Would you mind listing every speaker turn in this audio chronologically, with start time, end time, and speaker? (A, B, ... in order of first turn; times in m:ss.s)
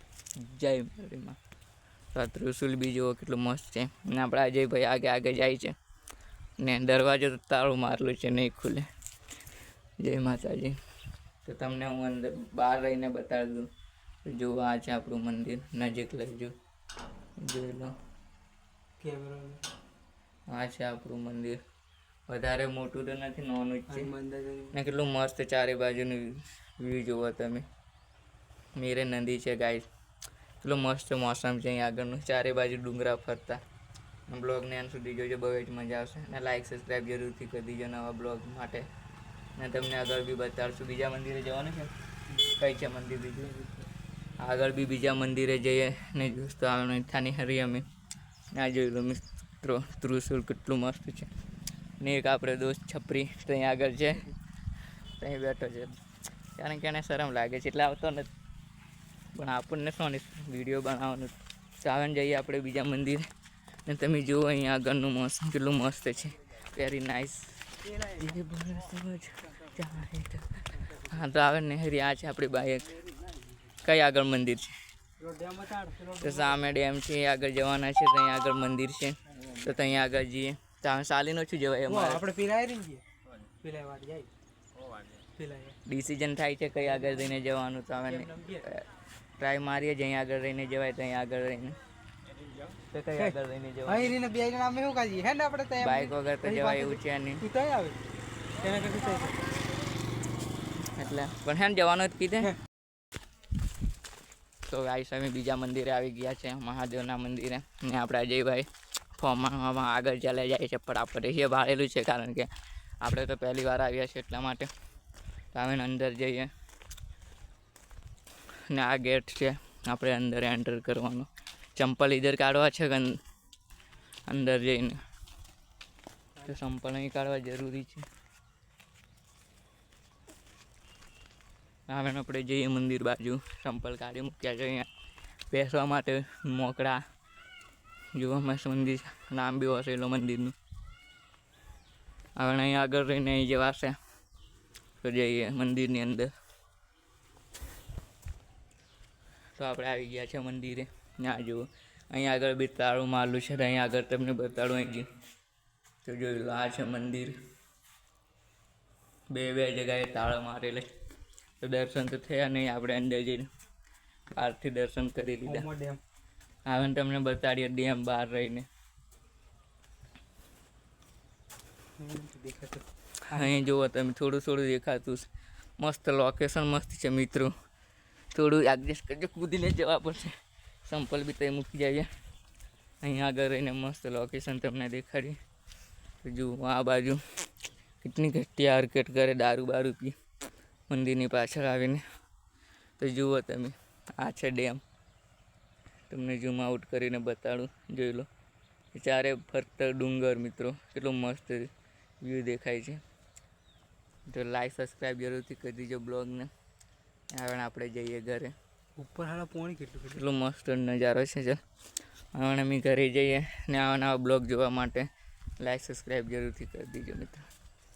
0:00.4-0:01.4 A
0:02.1-0:05.7 A
0:06.6-0:08.9 A
0:10.0-0:10.8 A
0:11.4-0:13.7 A
0:14.2-0:16.5 A
0:17.4-0:17.9 A
0:19.0-0:19.6 B
0:20.5-0:21.6 A
0:22.3-0:24.1 A
0:23.9-0:24.7 B
0:24.7-0:27.6 A
0:28.8-0:29.9 A
0:30.6-0:33.6 A
0:34.3-0:38.8 A
0:39.6-0:43.8 A
0:44.4-0:47.8 A
0:48.5-0:51.3 A
0:52.0-0:54.3 A
0:55.2-0:56.0 A
0:56.6-0:58.3 A
0:59.3-1:03.3 A
1:03.8-1:13.0 A
1:13.8-1:14.7 A
1:15.2-1:16.6 B
1:16.2-1:22.2 A
1:21.9-1:23.0 B
1:23.6-1:24.3 B
1:25.3-1:25.8 B
1:25.8-1:28.9 A
1:28.0-1:28.6 B
1:29.4-1:31.8 A
1:32.9-1:34.1 A
1:33.8-1:38.0 B
1:35.8-1:37.4 A
1:38.6-1:39.4 B
1:40.8-1:42.6 A
1:44.7-1:52.5 A
1:53.0-1:54.7 A
1:55.5-1:56.5 A
1:58.7-2:03.2 A
2:04.3-2:05.0 A
2:06.4-2:08.0 A
2:11.9-2:14.9 A
2:15.5-2:17.0 A
2:18.2-2:20.5 A
2:22.4-2:24.0 A
2:25.0-2:26.3 A
2:29.6-2:35.0 A
2:36.0-2:37.3 A
2:39.3-2:40.9 A
2:41.6-2:43.5 A
2:44.3-2:45.7 A
2:45.4-2:46.0 B
2:46.6-2:48.6 A
2:52.0-2:53.5 B
2:53.3-2:55.3 A
2:55.8-2:57.5 A
2:58.3-3:00.3 A
3:00.8-3:02.1 A
3:03.0-3:05.4 A
3:06.2-3:07.2 A
3:08.0-3:10.1 A
3:10.9-3:12.0 A
3:13.0-3:14.8 A
3:16.1-3:18.3 A
3:18.9-3:21.7 A
3:22.2-3:23.0 A
3:24.3-3:26.5 A
3:27.3-3:28.5 A
3:29.0-3:30.2 B
3:30.1-3:31.6 A
3:32.3-3:35.1 A
3:35.6-3:37.4 A